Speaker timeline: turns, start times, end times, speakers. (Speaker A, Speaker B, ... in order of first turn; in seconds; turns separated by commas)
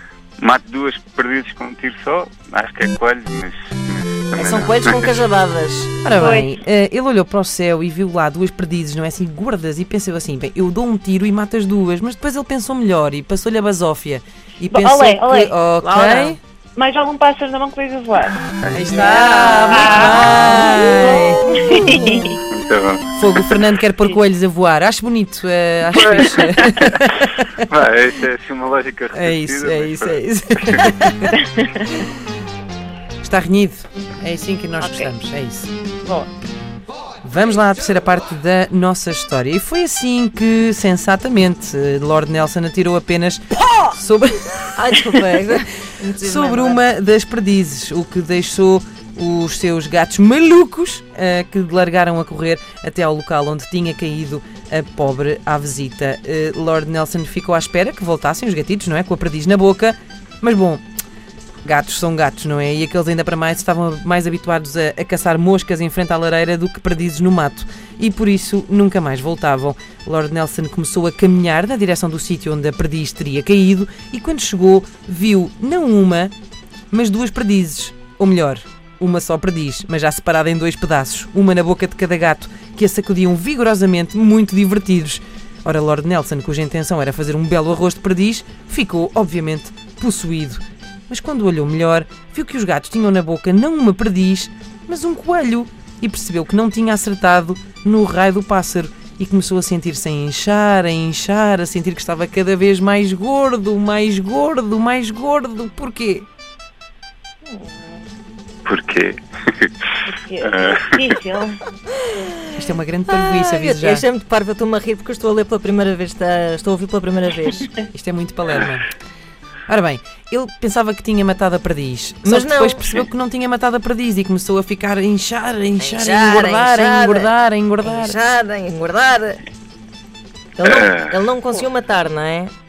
Speaker A: 0.4-5.2, Speaker B: 4.4-5.9, Speaker C: 6.0-16.4, Speaker D: 6.2-6.6, Speaker D: 14.7-22.4, Speaker C: 18.7-22.0, Speaker B: 20.4-22.2, Speaker A: 22.5-23.6, Speaker C: 23.1-27.6, Speaker A: 26.0-31.0, Speaker C: 29.1-31.3, Speaker D: 31.3-31.9, Speaker C: 33.2-35.7, Speaker D: 34.8-35.1, Speaker D: 36.0-36.3, Speaker C: 37.2-45.5, Speaker B: 44.8-46.8, Speaker C: 46.2-60.8, Speaker C: 61.6-76.3, Speaker C: 76.9-106.3, Speaker D: 107.5-108.0, Speaker A: 108.7-109.7, Speaker D: 110.1-111.6, Speaker A: 110.4-111.0, Speaker C: 112.5-114.1, Speaker B: 113.1-117.7, Speaker C: 117.9-118.9, Speaker C: 119.7-128.2, Speaker B: 122.2-122.9, Speaker B: 125.8-129.4, Speaker B: 130.6-132.5, Speaker A: 130.6-131.2